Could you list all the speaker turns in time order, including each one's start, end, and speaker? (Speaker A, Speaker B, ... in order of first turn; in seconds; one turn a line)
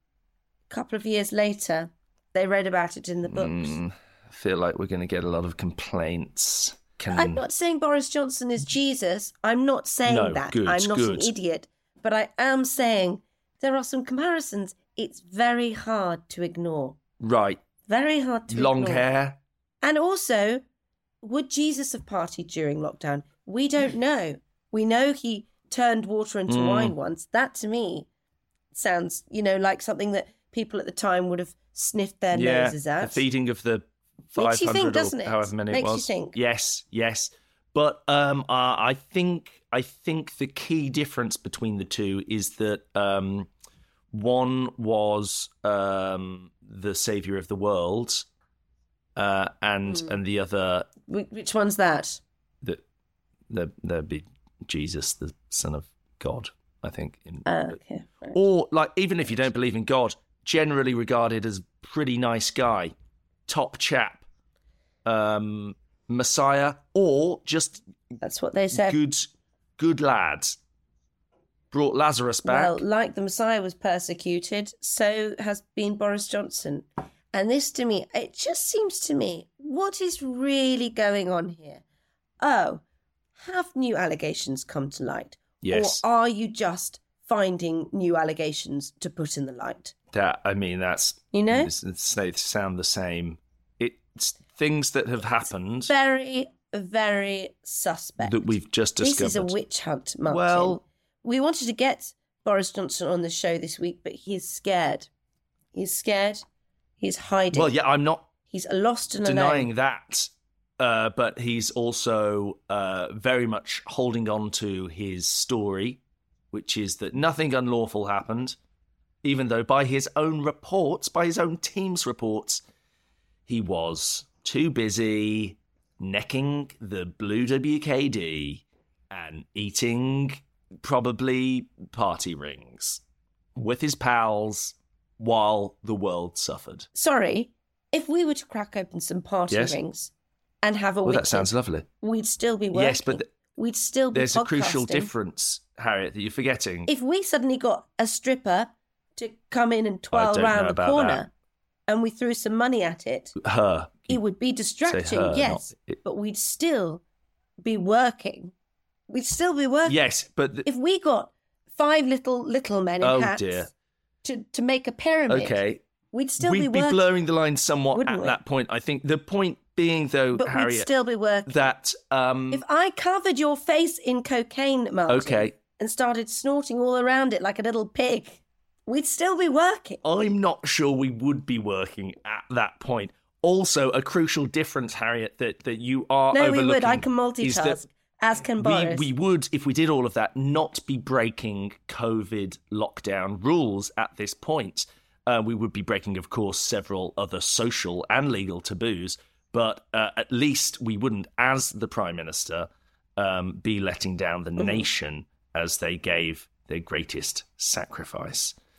Speaker A: 0.7-3.7
Speaker B: 3.3-7.4
Speaker A: 7.1-17.0
Speaker B: 10.1-11.3
Speaker B: 17.2-17.6
Speaker A: 17.9-19.0
Speaker B: 18.5-19.4
Speaker A: 19.8-20.6
Speaker A: 21.2-28.1
Speaker B: 26.5-26.9
Speaker A: 28.7-33.2
Speaker B: 32.3-43.5
Speaker A: 34.4-36.4
Speaker B: 44.1-48.3
Speaker B: 49.1-50.9
Speaker A: 49.9-50.1
Speaker A: 51.1-52.2
Speaker B: 53.5-57.8
Speaker A: 57.5-58.4
Speaker B: 58.3-62.9
Speaker B: 63.5-64.2
Speaker B: 65.0-67.8
Speaker A: 68.2-69.0
Speaker B: 68.7-70.6
Speaker B: 71.7-72.8
Speaker A: 72.4-81.8
Speaker A: 82.4-82.8
Speaker A: 83.4-89.9
Speaker B: 85.6-86.0
Speaker B: 90.1-95.9
Speaker A: 91.3-91.7
Speaker A: 95.9-105.1
Speaker B: 98.2-99.5
Speaker B: 100.2-100.8
Speaker A: 105.7-106.4
Speaker A: 107.0-107.7
Speaker B: 107.5-108.3
Speaker A: 108.5-109.7
Speaker B: 109.2-116.0
Speaker B: 116.5-118.6
Speaker B: 119.2-122.6
Speaker B: 123.5-133.0
Speaker B: 133.6-136.9
Speaker A: 136.9-141.5
Speaker B: 139.5-139.8
Speaker B: 141.0-141.9
Speaker A: 142.0-145.1
Speaker B: 142.7-143.2
Speaker B: 144.1-146.9
Speaker A: 146.8-151.3
Speaker B: 150.1-151.2
Speaker A: 151.9-153.3
Speaker B: 153.4-154.2
Speaker A: 154.1-157.0
Speaker B: 154.9-156.0
Speaker A: 157.6-158.5
Speaker A: 159.1-160.0
Speaker B: 159.8-160.7
Speaker A: 160.6-163.7
Speaker B: 163.0-163.7
Speaker A: 164.2-165.6
Speaker B: 165.3-165.8
Speaker A: 166.1-167.0
Speaker B: 166.4-170.9
Speaker A: 167.9-168.4
Speaker A: 170.3-171.7
Speaker B: 171.5-172.6
Speaker A: 172.5-180.0
Speaker B: 175.1-175.6
Speaker B: 180.0-187.8
Speaker A: 186.3-189.1
Speaker B: 188.6-208.5
Speaker A: 204.6-204.8